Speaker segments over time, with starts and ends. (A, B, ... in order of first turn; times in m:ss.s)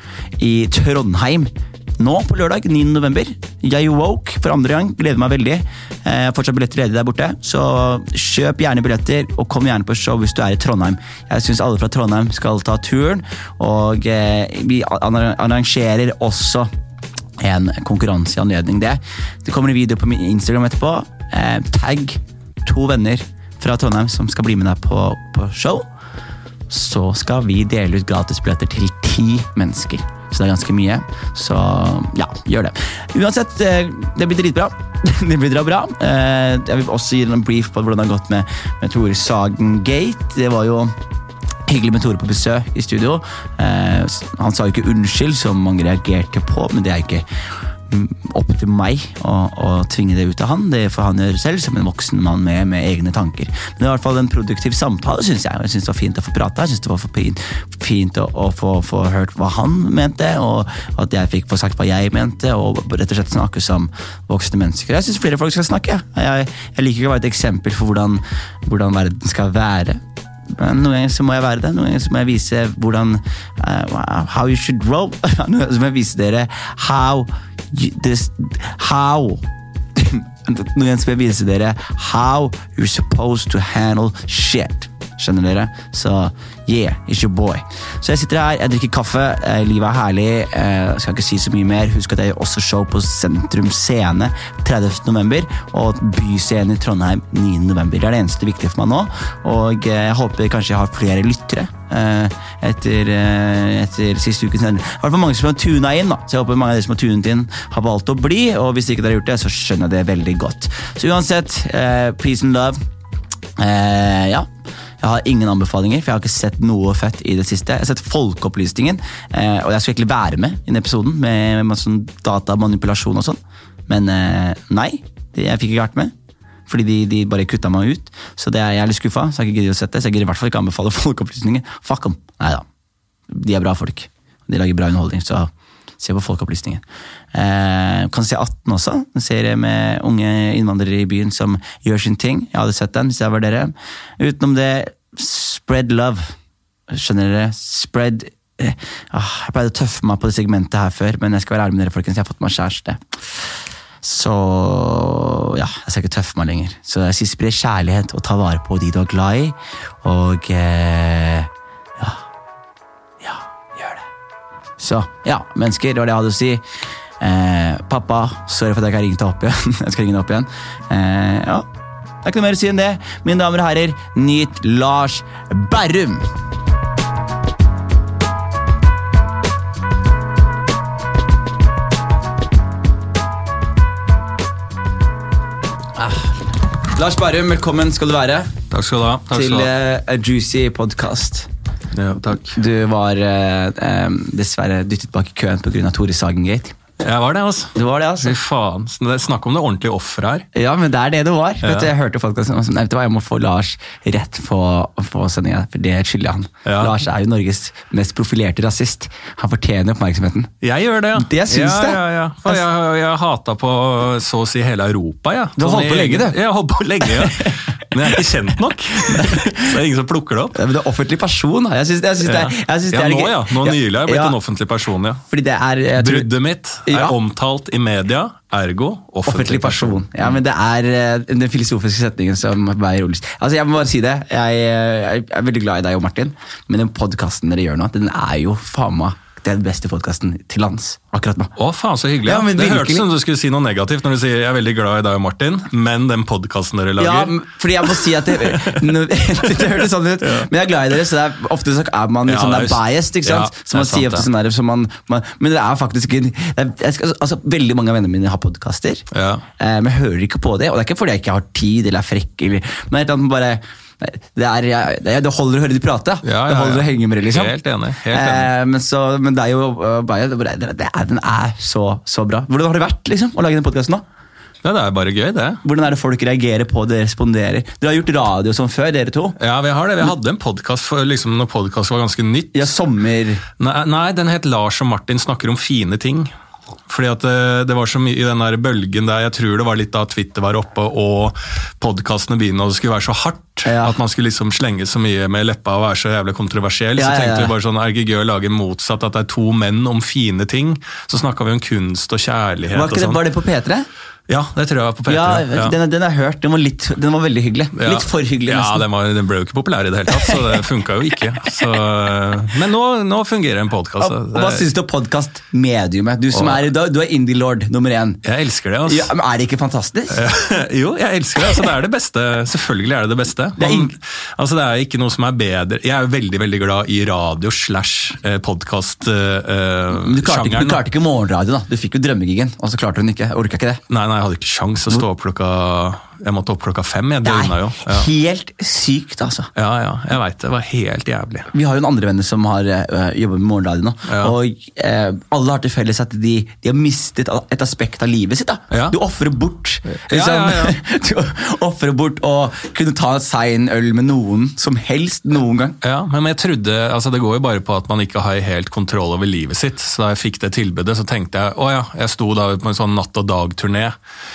0:00.4-0:16.7 A
0:17.4-0:25.9 A
0:26.7-0:41.0 A
0:41.7-0:47.2 A
0:47.9-1:10.0 A
1:10.6-1:52.8 A
1:53.6-1:54.5 A
1:55.0-2:06.1 A
2:06.7-2:12.7 A
2:13.3-2:16.8 A
2:17.3-2:26.4 A
2:26.9-2:33.2 A
2:34.0-2:42.2 A
2:43.2-2:44.1 A
2:44.8-2:46.6 A
2:47.2-2:51.7 A
2:52.2-2:56.3 A
3:06.0-3:08.6 A
3:08.7-3:09.7 B
3:09.3-3:11.5 A
3:11.9-3:12.6 B
3:12.5-3:16.8 A
3:17.0-3:20.5 B
3:17.8-3:18.4 A
3:20.5-3:30.5 A
3:21.6-3:21.9 B
3:26.7-3:27.0 B
3:30.6-3:40.6 B
3:31.2-3:32.6 A
3:35.6-3:36.4 A
3:37.2-3:38.2 A
3:39.0-3:39.7 A
3:40.5-3:44.4 A
3:42.2-3:45.2 B
3:45.3-3:46.3 A
3:46.0-3:50.3 B
3:46.8-3:47.2 A
3:49.2-4:01.5 A
4:01.6-4:10.5 B
4:02.3-4:03.1 A
4:07.0-4:19.1 A
4:12.3-4:14.3 B
4:19.1-4:19.4 B
4:19.6-4:27.6 A
4:26.2-4:28.5 B
4:28.1-4:34.0 A
4:34.6-4:35.6 B
4:35.6-4:39.4 A
4:39.4-4:42.7 B
4:42.5-4:43.4 A
4:43.6-4:46.3 B
4:46.9-5:03.2 B
4:53.6-4:54.0 A
4:57.0-4:57.5 A
5:02.7-5:03.9 A
5:04.3-5:05.8 B
5:05.1-5:08.8 A
5:07.8-5:14.6 B
5:10.1-5:10.6 A
5:14.0-5:18.2 A
5:16.3-5:16.6 B
5:18.2-5:19.1 B
5:18.9-5:20.2 A
5:20.1-5:30.8 B
5:23.6-5:23.9 A
5:29.9-5:33.8 A
5:33.9-5:38.1 B
5:37.2-5:39.5 A
5:39.6-5:41.5 B
5:41.5-5:55.8 A
5:44.1-5:44.3 B
5:48.7-5:49.0 B
5:49.9-5:50.8 B
5:55.8-6:04.0 B